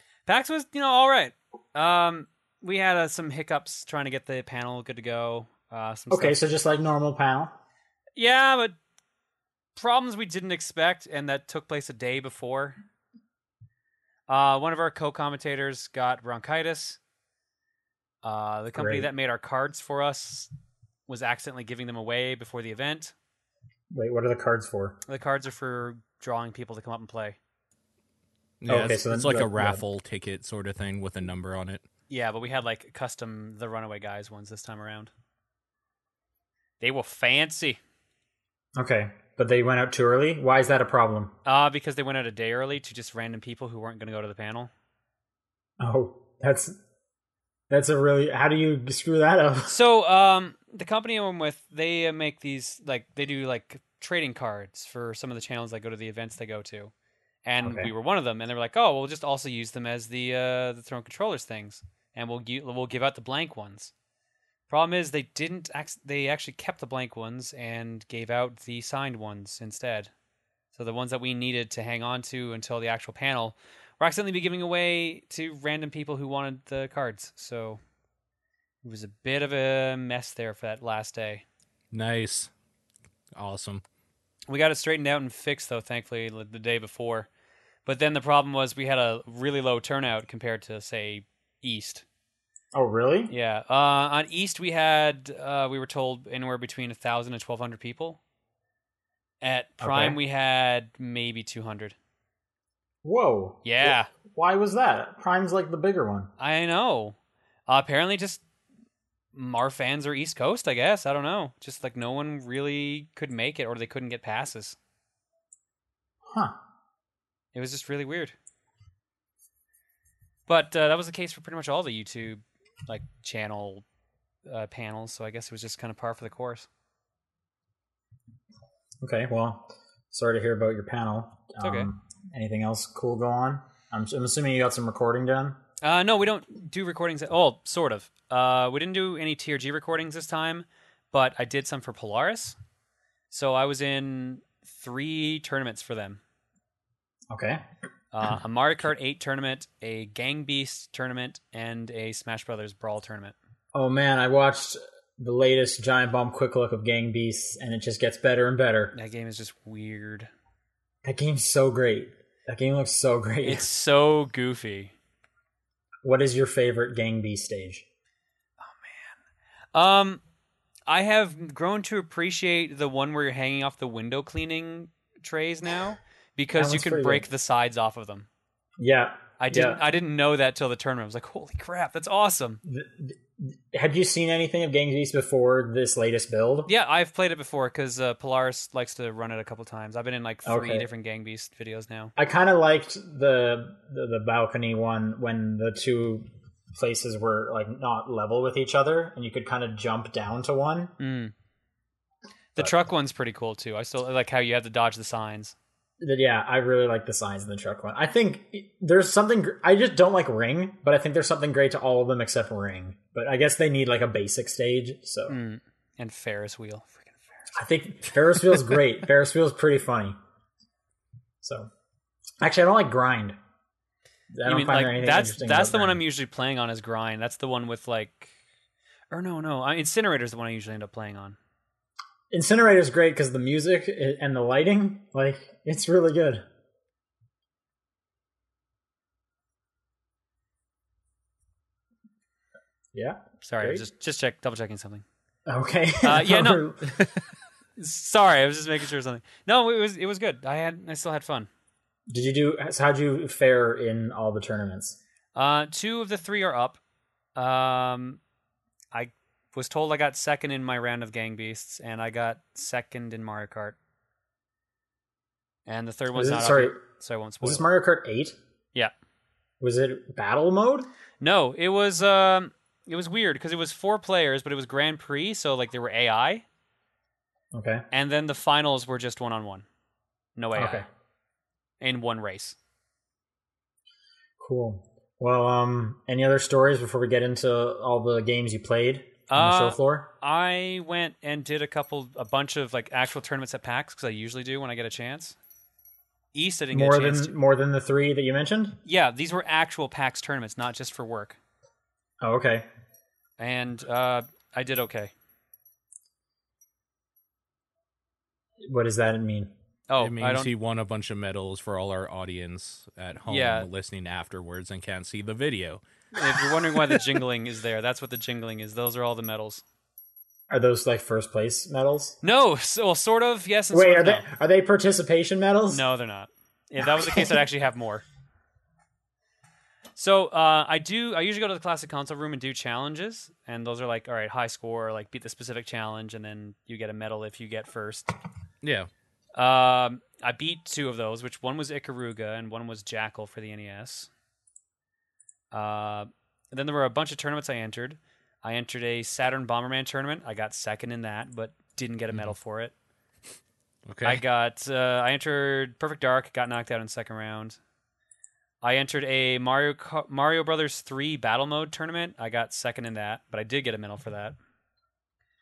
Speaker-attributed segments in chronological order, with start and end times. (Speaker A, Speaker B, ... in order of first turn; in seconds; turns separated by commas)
Speaker A: 0.2-6.4, Speaker B: 6.1-7.5, Speaker A: 8.2-8.8, Speaker A: 9.8-12.8, Speaker A: 14.3-17.0, Speaker A: 18.2-20.5, Speaker B: 18.8-19.1, Speaker A: 21.1-23.1, Speaker B: 23.9-25.0, Speaker A: 25.1-27.4, Speaker C: 28.6-31.8, Speaker B: 28.7-29.8, Speaker A: 32.1-35.1, Speaker A: 36.8-37.8, Speaker B: 38.8-41.3, Speaker A: 41.4-44.7, Speaker B: 45.8-46.8, Speaker B: 47.7-49.7, Speaker A: 49.6-56.9, Speaker A: 57.5-63.9, Speaker B: 57.6-57.9, Speaker A: 64.7-70.1, Speaker A: 70.7-77.8, Speaker A: 78.8-81.4, Speaker C: 81.9-82.5, Speaker C: 83.3-83.8, Speaker A: 84.5-87.3, Speaker A: 87.8-92.0, Speaker B: 92.7-93.3, Speaker A: 93.3-98.2, Speaker A: 99.4-101.9, Speaker B: 99.8-100.2, Speaker B: 103.0-106.3, Speaker A: 103.6-104.1, Speaker A: 106.4-107.2, Speaker A: 107.7-108.4, Speaker A: 109.3-114.8, Speaker B: 116.2-116.5, Speaker A: 117.5-118.3, Speaker A: 120.5-123.8, Speaker A: 124.5-126.7, Speaker B: 129.0-135.6, Speaker A: 131.6-131.9, Speaker A: 135.8-142.6, Speaker A: 143.3-146.2, Speaker B: 147.3-147.6, Speaker A: 148.1-153.3, Speaker B: 153.7-158.9, Speaker A: 158.9-160.3, Speaker B: 161.0-163.7, Speaker A: 163.4-164.9, Speaker B: 166.0-167.8, Speaker A: 168.7-169.2, Speaker A: 169.7-170.2, Speaker A: 170.9-178.3, Speaker B: 176.5-177.2, Speaker B: 178.8-179.8, Speaker A: 179.4-182.6, Speaker B: 182.6-186.7, Speaker A: 186.7-192.1, Speaker B: 190.4-190.9, Speaker B: 192.2-200.9, Speaker A: 201.0-201.3, Speaker A: 202.5-205.5, Speaker B: 206.0-215.4, Speaker A: 215.3-217.3, Speaker B: 217.5-220.2, Speaker B: 221.4-221.7, Speaker B: 222.4-223.3, Speaker B: 224.3-226.0, Speaker A: 224.4-228.3, Speaker A: 229.1-231.4, Speaker B: 232.3-236.4, Speaker B: 242.9-243.8, Speaker A: 243.4-245.0, Speaker B: 245.4-247.0, Speaker A: 246.0-246.7, Speaker A: 247.8-251.5, Speaker B: 252.1-255.0, Speaker A: 255.3-256.8, Speaker A: 257.4-258.2, Speaker A: 258.9-263.8, Speaker A: 265.6-267.6, Speaker B: 266.1-266.8, Speaker B: 267.4-268.4, Speaker B: 269.6-270.9, Speaker A: 271.2-276.4, Speaker B: 277.5-277.8, Speaker A: 277.9-279.6, Speaker A: 280.4-280.9, Speaker B: 280.5-280.8, Speaker A: 281.8-282.6, Speaker B: 284.4-290.1, Speaker A: 289.3-295.4, Speaker A: 296.3-297.3, Speaker B: 296.7-298.8, Speaker A: 298.8-301.4, Speaker B: 302.2-302.6, Speaker A: 303.4-305.1, Speaker B: 308.6-309.5, Speaker A: 309.9-310.5, Speaker C: 310.0-315.8, Speaker A: 313.3-313.7, Speaker A: 316.1-319.6, Speaker B: 320.5-322.2, Speaker A: 322.2-324.2, Speaker B: 323.7-325.8, Speaker A: 325.7-328.0, Speaker B: 326.8-327.3, Speaker A: 329.9-338.1, Speaker C: 338.6-338.9, Speaker A: 339.4-344.1, Speaker A: 345.5-352.7, Speaker C: 353.9-354.2, Speaker A: 354.0-357.6, Speaker A: 358.6-364.4